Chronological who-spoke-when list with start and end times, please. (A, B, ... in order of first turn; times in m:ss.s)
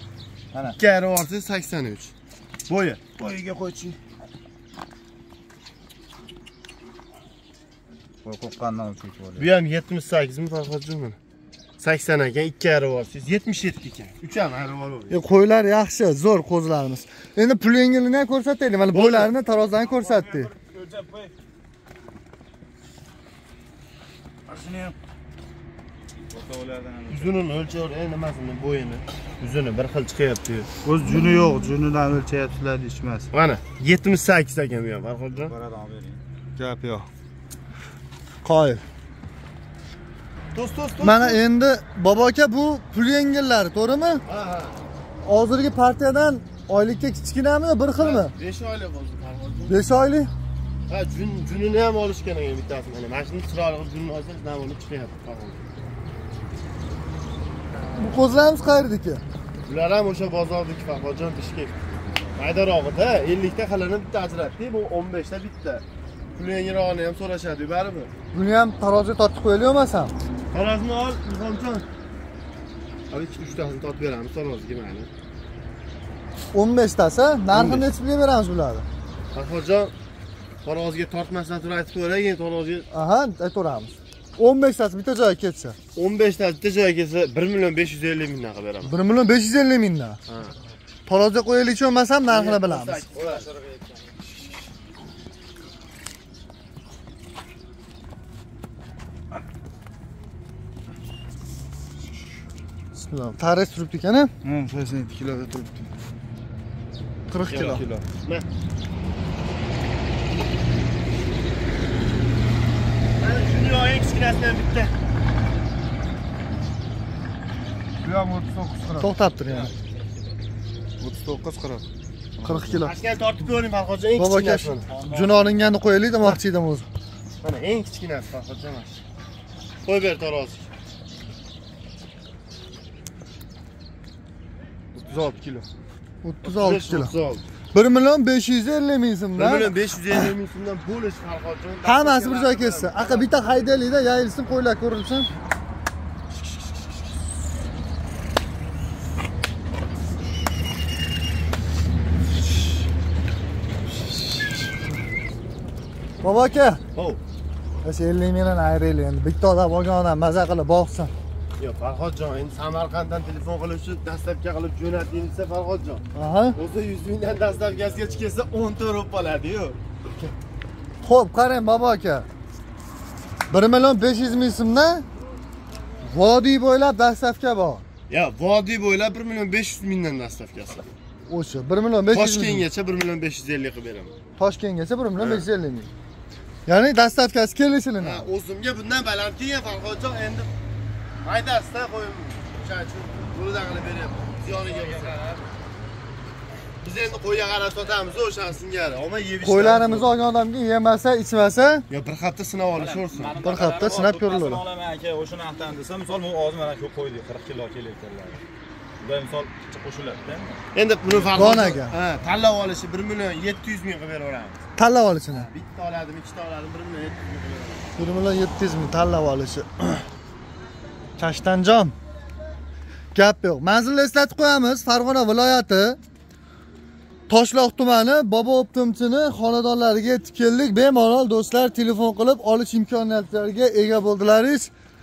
0:00.5-0:00.8 A
0:00.8-0:02.1 B
0:02.7-0:03.0 B
0:03.2-0:04.0 A
0:08.2-0:09.5 A
0:09.4-0:11.2 B
0:11.8-0:15.2 B
0:15.1-0:20.5 C
0:18.9-0:19.3 B
0:19.8-0:21.3 A
0:24.5-0:24.9 A
0:26.3-0:27.5 A
0:27.1-0:30.7 B
0:30.8-0:33.3 D
0:33.3-0:35.5 B
0:35.4-0:36.2 A
0:36.6-0:37.1 C
0:38.4-0:38.8 C
0:40.5-0:41.4 B
0:41.0-0:44.2 C
0:44.3-0:44.8 B
0:45.2-0:48.3 C
0:48.0-0:49.8 B
0:49.7-0:50.3 C
0:50.9-0:55.6 B
0:58.0-0:59.2 C
0:59.7-1:08.1 B
1:08.3-1:10.1 C
1:10.5-1:11.8 B
1:13.1-1:15.1 B
1:16.5-1:18.9 C
1:17.5-1:17.9 B
1:19.3-1:19.9 B
1:20.6-1:22.9 B
1:22.9-1:25.8 C
1:26.0-1:28.9 B
1:28.8-1:30.2 C
1:30.3-1:30.6 B
1:31.1-1:33.0 C
1:32.3-1:33.5 B
1:33.1-1:34.1 A
1:43.0-1:44.3 C
1:44.5-1:45.7 D
1:47.3-1:47.8 C
1:47.5-1:48.5 B
1:53.2-1:54.9 B
1:58.0-1:59.1 D
1:59.0-1:59.7 C
1:59.5-2:00.2 A
2:01.0-2:01.8 D
2:02.4-2:02.9 C
2:02.8-2:04.9 B
2:04.2-2:06.9 C
2:04.9-2:05.6 A
2:07.4-2:09.0 B
2:09.8-2:10.7 B
2:14.9-2:15.7 B
2:16.2-2:17.1 C
2:16.4-2:17.4 B
2:17.7-2:20.3 C
2:19.4-2:23.7 B
2:21.8-2:25.3 C
2:36.2-2:36.8 C
2:36.9-2:37.2 B
2:37.8-2:41.1 C
2:41.6-2:46.0 B
2:46.2-2:46.6 C
2:46.6-2:49.8 B
2:51.0-2:52.3 C
2:53.5-2:55.0 C
2:56.0-2:57.8 C
2:58.1-3:00.9 B
3:01.3-3:02.7 C
3:02.1-3:04.1 B
3:04.4-3:05.9 C
3:05.2-3:05.5 B
3:06.7-3:08.3 C
3:08.0-3:10.5 B
3:11.2-3:15.2 B
3:14.5-3:15.5 A
3:16.8-3:20.1 B
3:19.4-3:21.9 C
3:21.9-3:23.4 B
3:22.7-3:28.4 A
3:23.4-3:24.6 C
3:29.0-3:30.5 A
3:30.7-3:34.6 B
3:31.1-3:31.4 A
3:31.3-3:32.0 C
3:34.8-3:35.5 C
3:35.3-3:37.9 B
3:38.0-3:40.0 C
3:41.2-3:41.9 C
3:43.1-3:46.0 C
3:47.3-3:54.7 C